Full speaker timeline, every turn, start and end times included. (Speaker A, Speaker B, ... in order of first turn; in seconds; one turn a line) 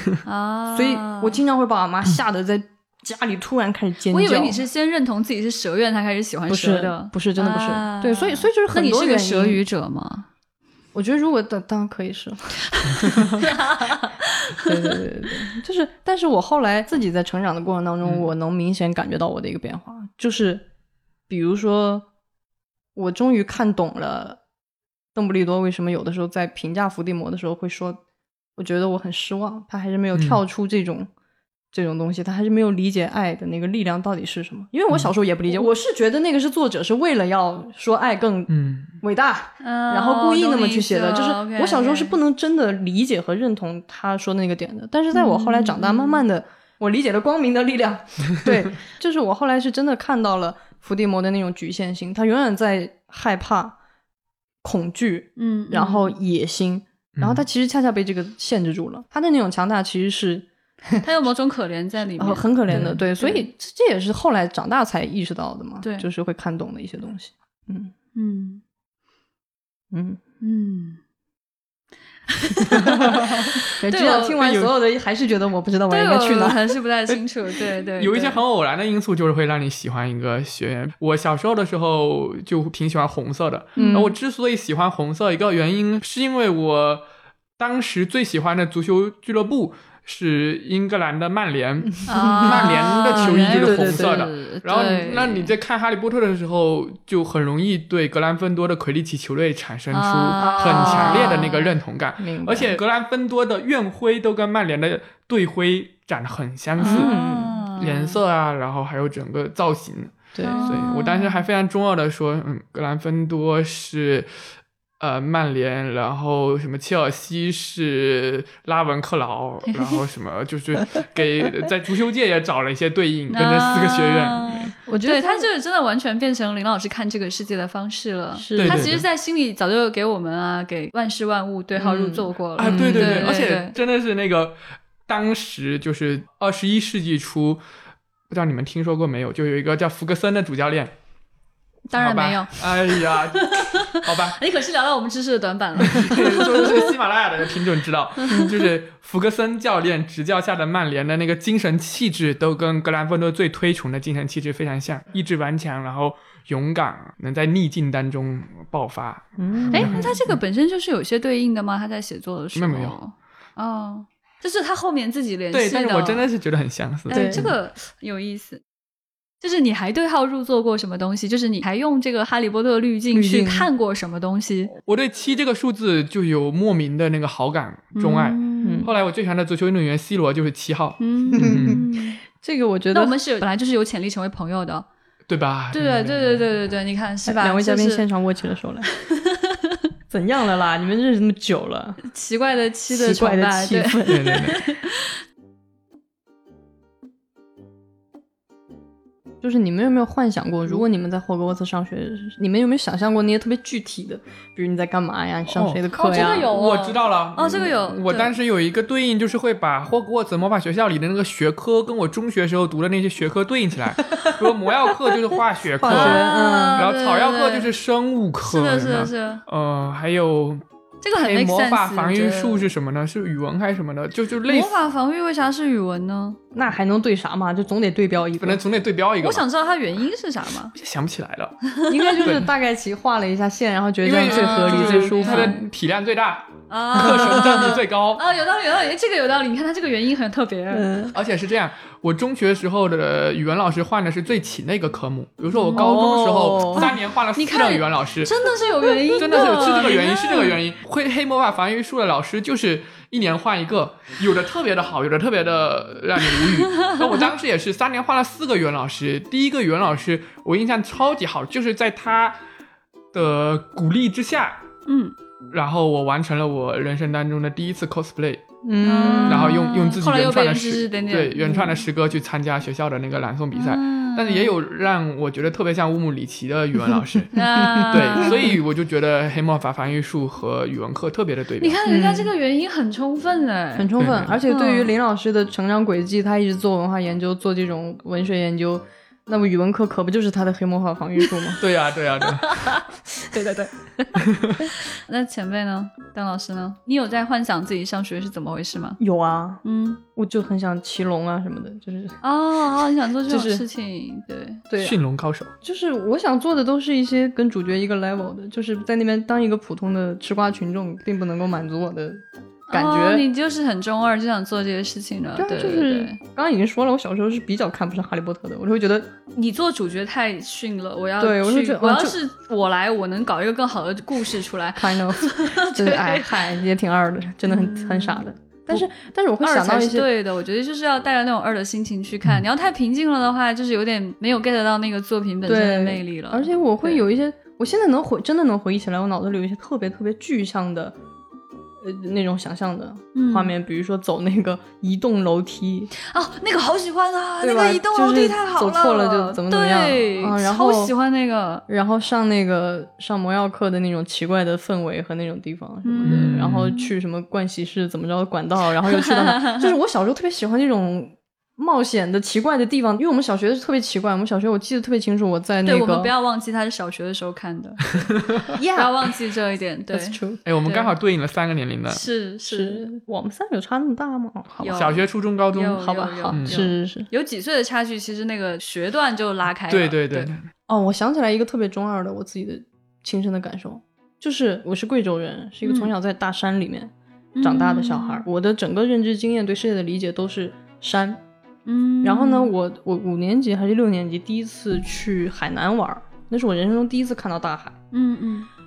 Speaker A: 0.2-1.4
Speaker B: 0.7-4.6
Speaker A: 4.1-10.3
Speaker B: 6.5-9.6
Speaker B: 10.9-13.5
Speaker A: 12.7-14.9
Speaker B: 14.6-20.6
Speaker B: 21.3-22.1
Speaker B: 22.9-24.4
Speaker B: 25.1-28.0
Speaker B: 28.6-31.1
Speaker C: 30.1-30.4
Speaker B: 31.7-53.8
Speaker C: 38.5-38.9
Speaker A: 39.6-42.2
Speaker A: 45.1-46.2
Speaker B: 54.6-61.1
Speaker A: 55.4-56.1
Speaker C: 57.1-57.4
Speaker A: 61.0-62.5
Speaker B: 62.1-67.9
Speaker C: 62.7-63.0
Speaker A: 63.2-63.5
Speaker A: 65.8-66.1
Speaker A: 68.1-68.6
Speaker B: 69.9-70.2
Speaker A: 70.4-71.0
Speaker A: 72.3-74.5
Speaker C: 72.8-73.5
Speaker B: 72.8-76.6
Speaker C: 74.4-74.7
Speaker A: 75.9-78.4
Speaker C: 78.0-87.0
Speaker A: 83.8-84.0
Speaker B: 83.8-84.2
Speaker C: 87.6-107.1
Speaker B: 92.0-94.2
Speaker A: 92.1-95.5
Speaker A: 99.9-101.7
Speaker B: 100.4-101.5
Speaker B: 102.2-102.8
Speaker B: 106.8-107.7
Speaker A: 106.8-108.2
Speaker C: 107.8-114.3
Speaker B: 110.3-110.8
Speaker A: 110.4-111.4
Speaker C: 115.0-124.6
Speaker A: 119.7-120.0
Speaker A: 123.3-133.7
Speaker B: 124.8-125.5
Speaker B: 128.3-128.9
Speaker C: 128.6-129.0
Speaker B: 131.7-133.3
Speaker C: 132.6-137.6
Speaker C: 138.3-140.9
Speaker A: 141.9-146.9
Speaker C: 141.9-144.4
Speaker C: 145.8-160.4
Speaker A: 148.2-148.5
Speaker B: 159.4-160.2
Speaker A: 159.7-166.3
Speaker C: 162.5-163.0
Speaker C: 165.5-167.5
Speaker A: 167.1-168.6
Speaker B: 167.1-167.5
Speaker A: 169.4-174.7
Speaker B: 173.1-173.7
Speaker C: 174.8-181.8
Speaker A: 177.9-178.9
Speaker B: 178.6-178.9
Speaker A: 181.0-182.2
Speaker B: 181.3-183.2
Speaker A: 182.9-184.9
Speaker C: 185.3-186.5
Speaker A: 185.7-188.0
Speaker B: 187.2-188.9
Speaker A: 189.1-189.8
Speaker B: 190.1-192.0
Speaker A: 192.0-195.1
Speaker B: 192.9-194.5
Speaker C: 194.1-194.6
Speaker B: 199.4-206.5
Speaker C: 205.5-216.2
Speaker A: 205.9-208.3
Speaker B: 214.1-214.4
Speaker B: 215.8-216.8
Speaker A: 215.8-217.7
Speaker C: 216.8-220.6
Speaker A: 218.4-219.4
Speaker A: 221.0-222.7
Speaker C: 221.1-224.8
Speaker A: 224.4-226.4
Speaker B: 226.5-228.6
Speaker C: 228.4-229.4
Speaker A: 229.2-230.7
Speaker C: 230.7-231.5
Speaker A: 231.7-232.2
Speaker B: 231.9-235.6
Speaker C: 232.2-232.5
Speaker C: 234.0-238.2
Speaker A: 234.2-235.6
Speaker A: 236.7-240.9
Speaker B: 237.0-237.7
Speaker B: 240.7-241.1
Speaker C: 241.1-248.3
Speaker A: 245.5-246.0
Speaker B: 245.7-246.9
Speaker A: 246.7-250.6
Speaker B: 248.8-249.5
Speaker C: 249.2-262.4
Speaker A: 256.4-257.3
Speaker C: 263.1-264.6
Speaker A: 264.9-265.1
Speaker C: 265.5-268.4
Speaker B: 268.6-269.6
Speaker A: 268.8-271.7
Speaker C: 269.1-281.8
Speaker A: 273.5-274.5
Speaker A: 277.3-278.6
Speaker B: 277.6-278.6
Speaker A: 281.6-283.9
Speaker B: 281.9-282.3
Speaker B: 283.8-291.6
Speaker C: 284.0-284.4
Speaker A: 284.5-284.9
Speaker C: 291.6-292.6
Speaker A: 292.4-294.2
Speaker C: 294.2-294.6
Speaker A: 294.9-299.0
Speaker B: 299.0-299.6
Speaker A: 299.6-300.0
Speaker B: 300.1-302.2
Speaker A: 302.2-304.6
Speaker B: 303.3-303.6
Speaker B: 304.7-305.0
Speaker C: 304.8-305.5
Speaker B: 305.6-313.2
Speaker A: 312.7-316.2
Speaker B: 315.4-319.1
Speaker A: 319.3-326.4
Speaker B: 321.2-322.2
Speaker B: 324.8-330.1
Speaker A: 327.4-328.8
Speaker A: 329.4-337.0
Speaker B: 335.4-340.9
Speaker B: 341.8-345.9
Speaker A: 343.1-343.5
Speaker A: 346.0-351.6
Speaker B: 347.4-350.9
Speaker B: 351.7-366.1
Speaker A: 355.8-356.9
Speaker C: 356.0-356.7
Speaker A: 358.8-359.7
Speaker A: 365.6-370.9
Speaker B: 368.5-369.1
Speaker B: 369.9-370.4
Speaker C: 370.4-372.0
Speaker A: 371.9-372.8
Speaker B: 372.4-374.8
Speaker A: 374.6-380.3
Speaker C: 374.6-376.6
Speaker B: 375.8-377.1
Speaker C: 379.7-380.5
Speaker B: 380.7-391.2
Speaker A: 385.6-385.9
Speaker A: 387.3-388.2
Speaker A: 391.6-392.5
Speaker B: 392.0-397.8
Speaker A: 397.9-398.5